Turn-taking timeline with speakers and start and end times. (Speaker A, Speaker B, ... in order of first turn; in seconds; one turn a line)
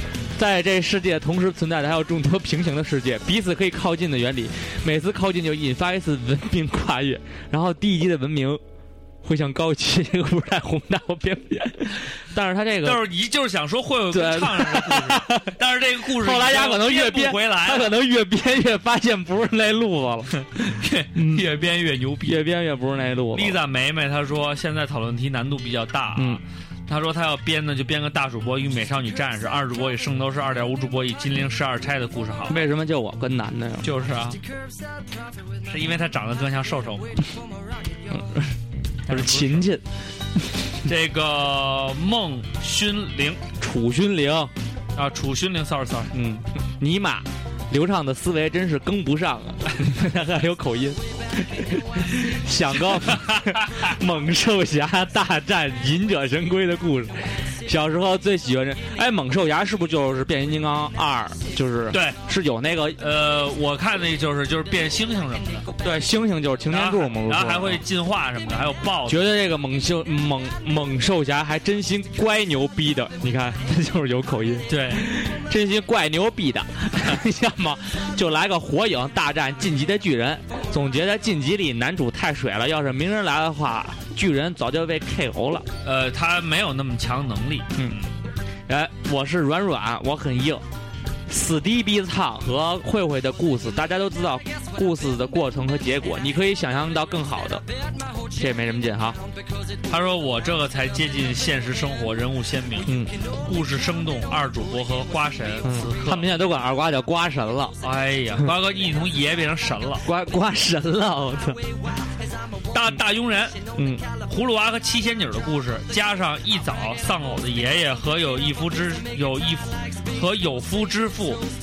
Speaker A: 0.4-8.6
Speaker A: 9.2-13.0
Speaker B: 12.8-17.9
Speaker A: 14.1-15.5
Speaker A: 16.1-20.3
Speaker B: 20.4-22.4
Speaker A: 21.1-21.5
Speaker A: 22.2-23.6
Speaker B: 23.3-32.6
Speaker A: 26.2-26.4
Speaker A: 32.5-33.9
Speaker B: 33.8-34.4
Speaker B: 35.6-37.2
Speaker A: 38.1-38.6
Speaker B: 39.1-39.7
Speaker A: 39.1-39.8
Speaker B: 40.9-43.4
Speaker A: 43.6-44.5
Speaker B: 45.0-46.1
Speaker A: 46.1-63.0
Speaker B: 53.0-53.9
Speaker B: 61.9-62.2
Speaker B: 63.0-65.7
Speaker A: 65.8-67.8
Speaker B: 66.7-69.2
Speaker A: 69.1-85.7
Speaker B: 74.7-75.1
Speaker B: 85.8-88.1
Speaker A: 88.7-90.6
Speaker A: 91.3-97.6
Speaker A: 98.3-99.2
Speaker B: 99.9-106.3
Speaker A: 102.9-103.1
Speaker A: 105.6-107.8
Speaker B: 107.8-110.1
Speaker A: 110.0-111.6
Speaker B: 112.7-113.6
Speaker A: 113.8-114.0
Speaker B: 114.2-121.4